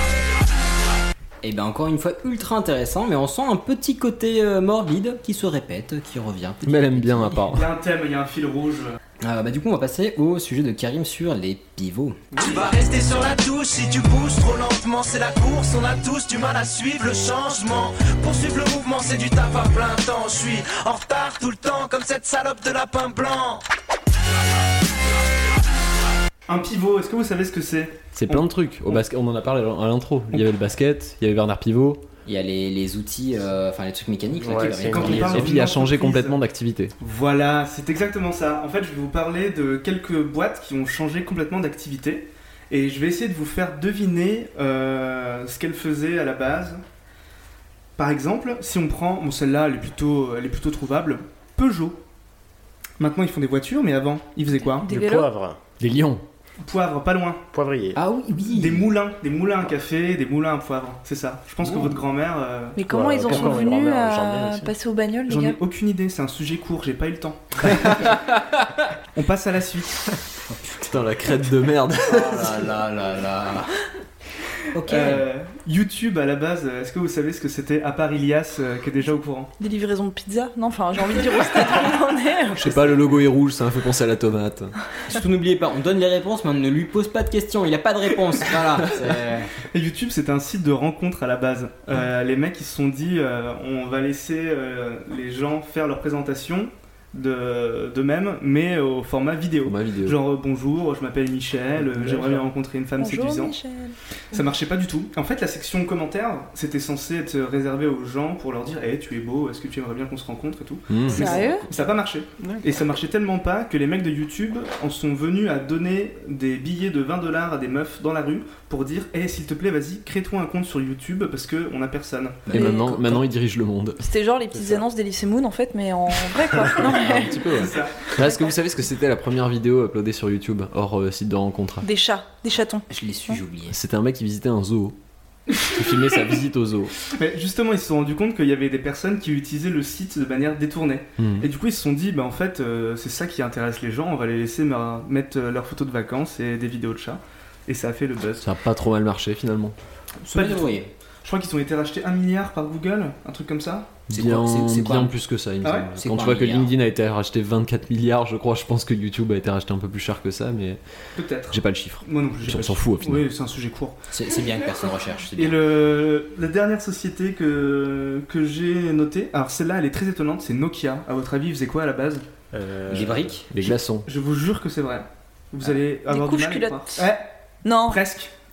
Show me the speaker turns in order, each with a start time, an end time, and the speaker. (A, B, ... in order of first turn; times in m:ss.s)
0:01.4-0:07.5 A
0:06.6-0:07.6 B
0:07.5-0:09.0 C
0:09.2-0:12.2 A
0:12.3-0:12.7 C
0:12.4-0:23.6 D
0:26.5-0:28.4 C
0:28.1-0:32.0 B
0:32.2-0:35.4 A
0:34.4-0:35.4 E
0:34.5-0:36.4 C
0:35.2-0:36.9 B
0:37.0-0:46.8 C
0:48.0-0:52.0 C
0:53.0-0:54.9 C
0:54.8-0:55.3 F
0:54.9-0:55.6 E
0:55.8-0:56.2 B
0:56.6-0:57.4 C
0:57.5-0:58.0 E
0:57.9-0:58.8 A
0:58.5-1:03.7 C
1:02.8-1:05.6 F
1:02.9-1:04.7 E
1:05.3-1:08.0 C
1:09.1-1:10.0 C
1:10.5-1:11.1 A
1:10.9-1:12.4 B
1:12.1-1:13.7 A
1:14.7-1:15.2 A
1:14.9-1:19.5 C
1:19.6-1:22.9 F
1:22.6-1:24.7 B
1:25.1-1:29.5 A
1:29.7-1:43.6 C
1:39.6-1:40.2 B
1:42.0-1:42.4 B
1:43.0-1:44.0 F
1:44.3-2:02.4 C
1:50.9-1:51.2 B
1:51.1-1:51.6 F
2:02.4-2:02.9 A
2:02.5-2:03.2 F
2:02.5-2:04.0 B
2:04.0-2:07.5 F
2:04.5-2:04.8 E
2:06.9-2:11.8 B
2:07.5-2:08.1 C
2:11.8-2:13.4 F
2:12.9-2:13.7 A
2:13.7-2:15.0 B
2:15.7-2:16.9 B
2:17.1-2:28.4 C
2:21.2-2:21.5 B
2:28.4-2:29.7 B
2:30.2-2:30.9 A
2:30.3-2:33.9 C
2:34.1-2:40.8 B
2:34.1-2:35.1 A
2:35.7-2:36.7 A
2:41.2-2:44.0 C
2:41.5-2:43.2 B
2:44.1-2:45.6 A
2:45.3-2:52.3 C
2:52.5-2:53.3 E
2:52.9-2:53.7 A
2:53.5-2:54.1 B
2:54.0-2:57.3 C
2:56.1-2:57.1 F
2:57.6-2:58.0 F
2:57.9-2:58.3 C